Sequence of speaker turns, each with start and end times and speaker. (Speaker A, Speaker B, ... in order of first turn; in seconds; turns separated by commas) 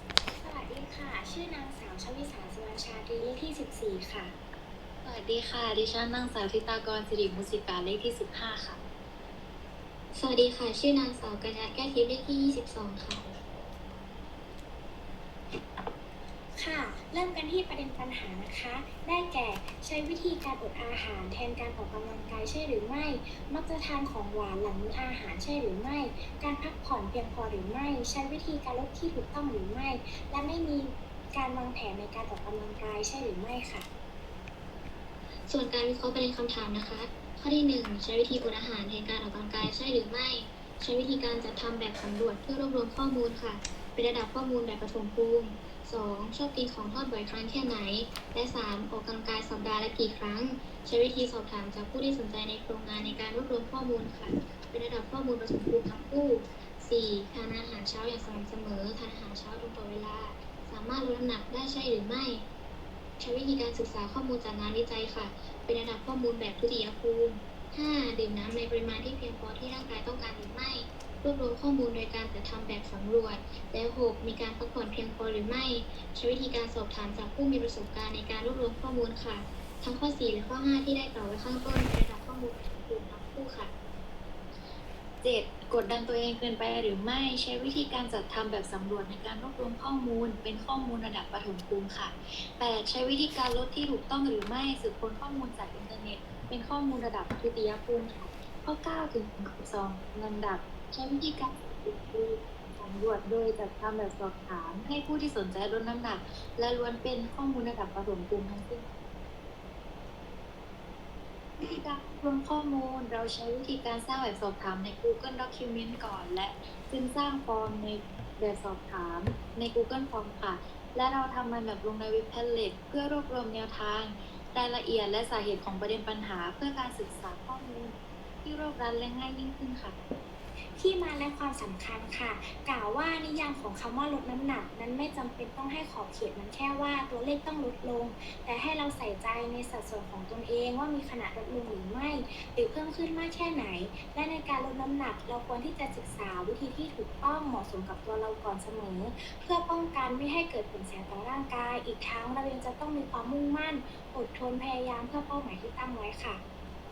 Speaker A: 0.4-4.3, Speaker B: 5.0-8.8, Speaker C: 10.1-13.3, Speaker A: 16.6-33.9, Speaker C: 35.5-62.4, Speaker C: 63.2-83.7, Speaker B: 85.2-108.9, Speaker B: 111.6-130.0, Speaker A: 130.8-156.4